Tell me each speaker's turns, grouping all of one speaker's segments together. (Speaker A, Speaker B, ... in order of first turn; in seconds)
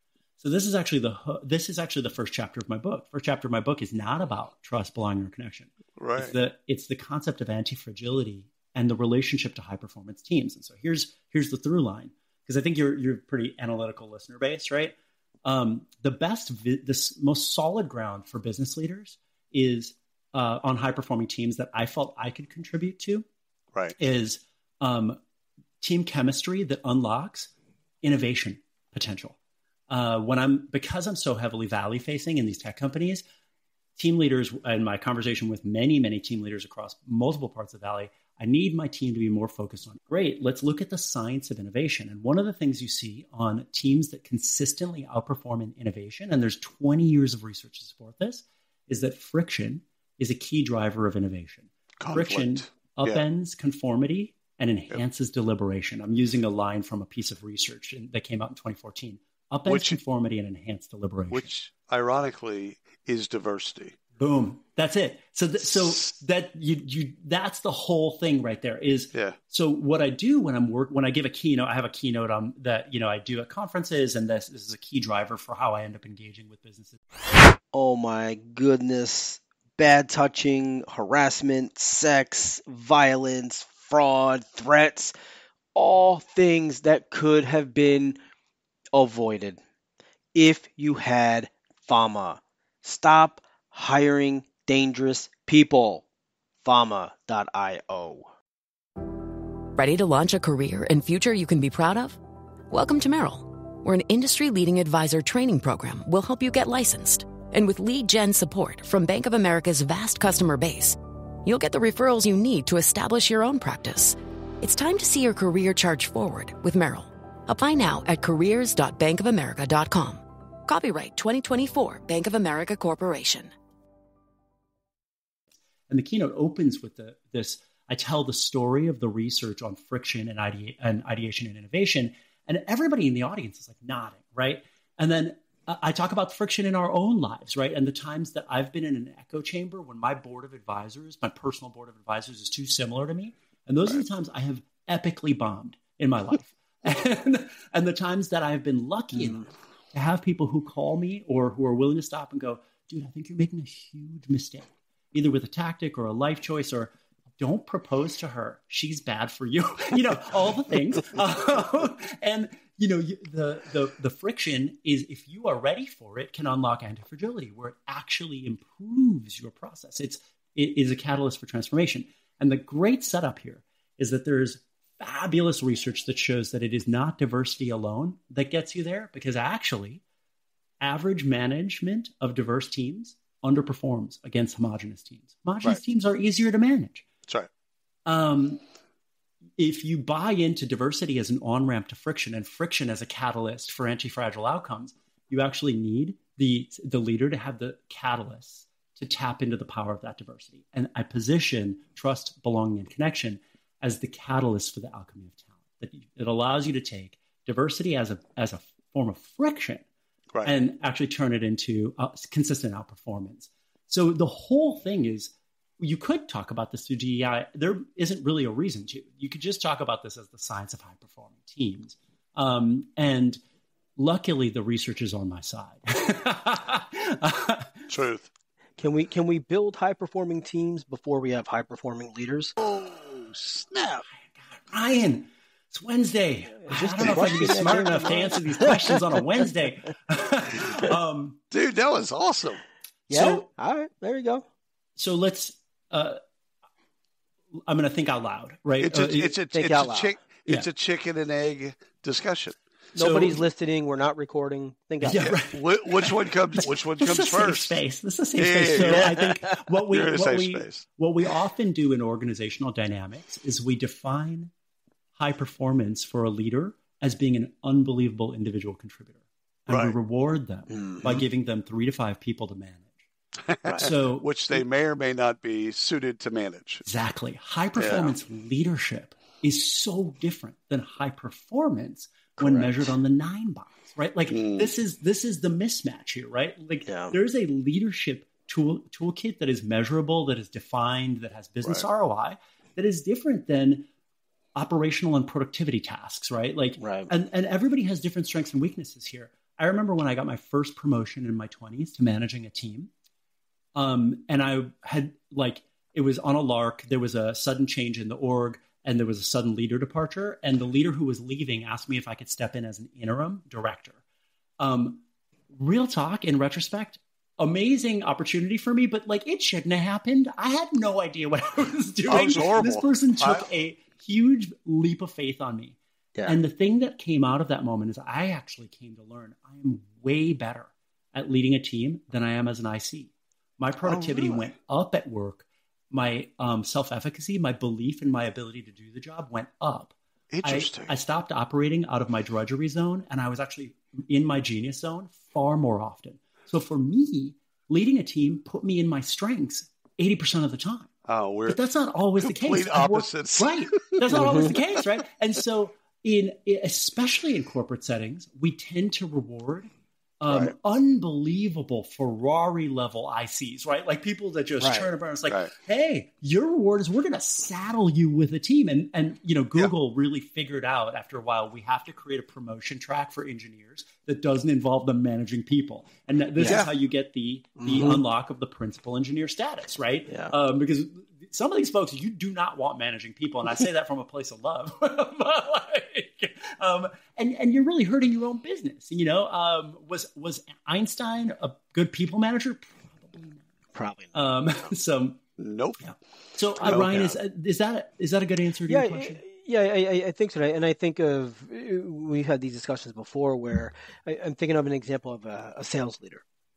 Speaker A: 0.4-23.2, 24.0-25.2, 25.8-27.5, 28.0-29.4, 29.9-33.2, 34.0-61.5, 64.2-77.0, 125.9-180.0, 180.8-187.1, 188.1-188.6, 189.6-209.8, 210.4-223.4, 224.0-227.9, 234.3-241.4, 243.1-243.5, 245.0-246.2, 247.7-249.3, 252.9-253.4, 255.0-264.5, 265.2-273.1, 273.8-274.6, 276.9-293.9, 294.6-302.9, 303.8-314.0, 314.6-350.9, 351.5-359.7, 360.2-393.5, 394.1-395.2, 395.8-399.2
Speaker B: 6.0-6.4, 52.0-53.2, 59.7-60.0, 61.3-64.0, 227.9-228.3, 232.6-234.0, 237.1-237.9, 241.5-242.6, 248.8-252.6, 255.1-257.8, 258.4-259.3, 259.9-260.8, 269.7-269.9, 273.5-276.8, 277.8-278.1, 282.4-282.7, 284.3-284.7, 322.1-323.5, 333.9-334.5, 340.3-340.9, 351.1-351.6, 352.2-354.6, 376.4-376.7, 395.4-395.8, 396.6-397.2
Speaker C: 77.7-85.1, 85.8-88.2, 88.9-89.6, 90.3-96.0, 96.6-98.3, 149.2-149.4, 228.8-232.6, 236.6-239.2, 243.1-244.4, 249.5-250.2, 252.9-255.3, 258.8-259.3, 286.9-287.2, 296.8-297.1, 354.1-354.5, 364.6-364.9, 377.6-378.0, 380.1-380.3, 393.7-394.1, 398.7-406.2
Speaker D: 99.7-102.2, 102.7-123.5